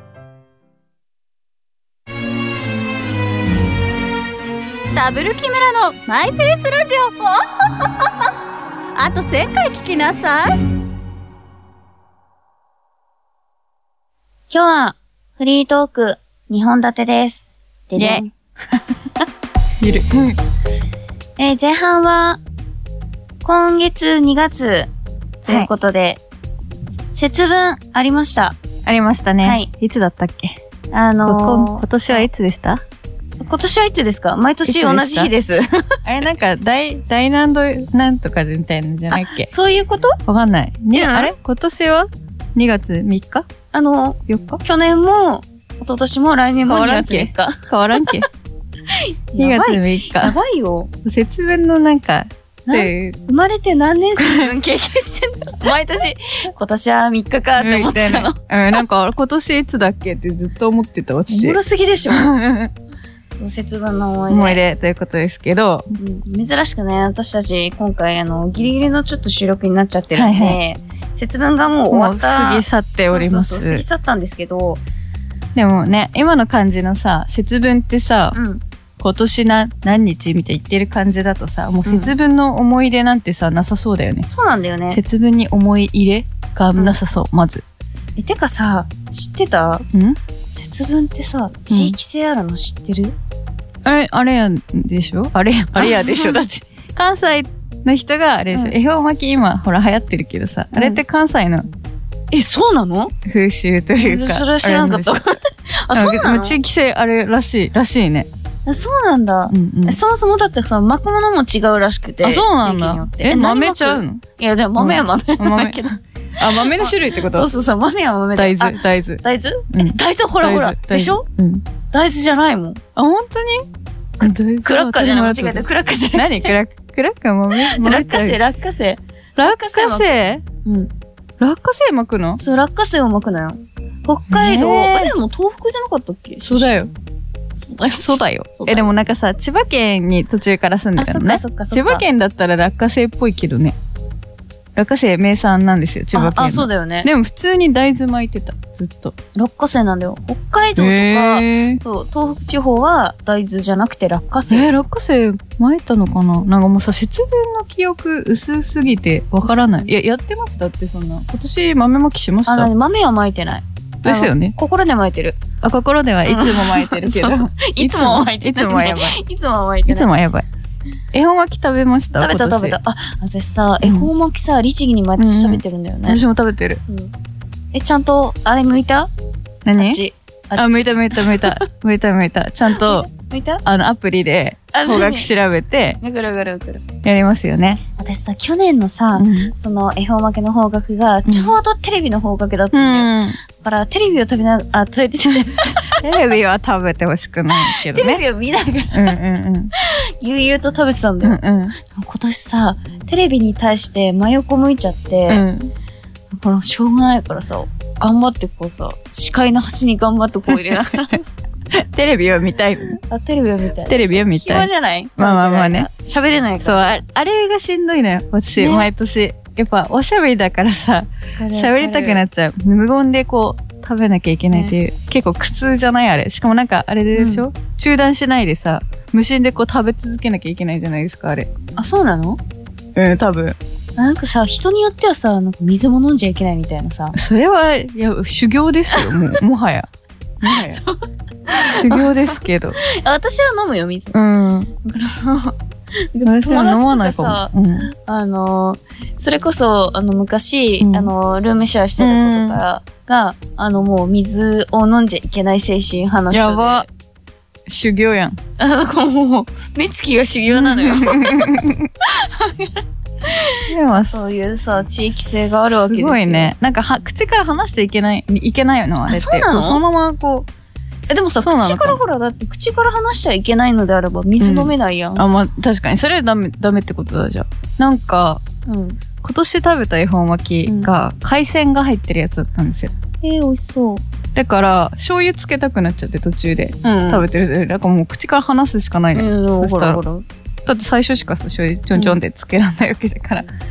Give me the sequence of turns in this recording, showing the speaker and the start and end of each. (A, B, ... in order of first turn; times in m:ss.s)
0:04.9-0:07.4 A
0:09.0-0:10.6 A
0:14.5-0:18.3 B
0:18.0-0:18.2 C
0:19.8-0:20.4 C
0:21.4-0:22.4 B
0:23.4-0:24.9 B
0:25.4-0:26.2 B
0:27.2-0:28.6 B
0:28.8-0:30.6 C
0:29.4-0:29.7 B
0:30.9-0:32.3 B
0:31.2-0:32.8 C
0:33.4-0:36.0 B
0:34.6-0:35.3 C
0:36.0-0:39.5 C
0:39.1-0:40.2 B
0:40.3-0:43.5 C
0:40.9-0:41.3 B
0:43.7-0:48.1 B
0:44.3-0:44.6 C
0:46.7-0:48.3 C
0:48.9-0:50.9 B
0:49.4-0:50.4 C
0:51.0-0:53.2 C
0:52.7-0:58.4 B
0:54.2-0:54.5 C
0:57.6-1:02.7 C
1:01.3-1:02.3 B
1:03.4-1:04.6 B
1:04.3-1:05.9 C
1:06.0-1:14.8 B
1:10.1-1:10.6 C
1:11.9-1:13.8 C
1:15.6-1:18.4 C
1:18.3-1:18.6 B
1:19.0-1:24.3 C
1:21.9-1:22.1 B
1:24.2-1:25.0 B
1:24.9-1:27.6 C
1:28.2-1:29.9 B
1:29.9-1:30.2 C
1:30.6-1:33.2 B
1:31.7-1:32.0 C
1:33.8-1:41.7 C
1:35.8-1:36.4 B
1:40.7-1:41.0 B
1:42.3-1:43.1 B
1:43.3-1:45.2 C
1:44.0-1:46.6 B
1:45.9-1:48.3 C
1:48.7-2:01.2 B
1:49.5-1:50.0 C
1:52.2-1:54.2 C
1:54.8-1:57.5 C
1:58.4-1:59.2 C
1:59.7-2:01.6 C
2:01.9-2:02.8 B
2:03.0-2:03.7 C
2:04.2-2:08.4 C
2:04.2-2:06.5 B
2:07.6-2:10.9 B
2:09.4-2:10.4 C
2:11.4-2:12.4 C
2:12.4-2:16.7 B
2:14.3-2:15.1 C
2:16.4-2:16.9 C
2:17.6-2:18.9 B
2:18.0-2:23.8 C
2:21.0-2:22.0 B
2:24.8-2:29.2 C
2:26.1-2:27.1 B
2:29.4-2:34.7 B
2:30.8-2:31.8 C
2:34.5-2:42.7 C
2:39.4-2:39.9 B
2:42.5-2:45.4 B
2:44.0-2:44.6 C
2:45.6-2:49.2 C
2:46.2-2:50.1 B
2:49.9-2:50.5 C
2:51.1-2:52.8 C
2:52.2-2:56.2 B
2:53.8-2:54.1 C
2:55.2-2:56.8 C
2:56.8-2:57.1 B
2:57.7-2:59.1 B
2:59.6-3:00.0 C
2:59.8-3:01.6 B
3:00.6-3:03.1 C
3:02.7-3:03.6 B
3:03.6-3:06.0 C
3:04.7-3:05.3 B
3:06.0-3:06.8 B
3:07.0-3:07.8 C
3:08.0-3:16.0 B
3:09.2-3:09.5 C
3:11.3-3:11.5 C
3:12.7-3:13.4 C
3:15.9-3:18.2 C
3:17.6-3:19.2 B
3:18.9-3:19.7 C
3:19.8-3:21.4 B
3:21.2-3:21.8 C
3:21.9-3:25.4 B
3:25.3-3:25.7 C
3:26.3-3:31.2 B
3:31.7-3:33.0 C
3:33.0-3:37.0 B
3:33.9-3:35.9 C
3:36.6-3:51.5 C
3:38.6-3:38.9 B
3:41.4-3:42.2 B
3:47.1-3:47.5 B
3:51.8-3:52.4 B
3:53.0-3:53.6 C
3:54.0-3:57.2 B
3:57.1-3:59.9 C
3:58.9-3:59.3 B
4:00.4-4:00.8 C
4:00.5-4:04.2 B
4:01.5-4:02.8 C
4:04.1-4:04.7 C
4:04.8-4:05.6 B
4:06.1-4:16.9 B
4:06.2-4:07.9 C
4:10.8-4:11.1 C
4:12.0-4:12.6 C
4:16.3-4:16.9 C
4:17.7-4:18.4 C
4:18.6-4:26.5 B
4:20.5-4:21.9 C
4:23.7-4:24.4 C
4:25.8-4:30.5 C
4:29.1-4:29.8 B
4:31.1-4:35.2 B
4:31.4-4:32.0 C
4:34.4-4:38.4 C
4:38.7-4:39.0 B
4:39.2-4:42.9 C
4:43.2-4:44.0 B
4:44.4-4:50.0 C
4:46.8-4:47.3 B
4:49.1-4:50.2 B
4:50.6-4:53.5 C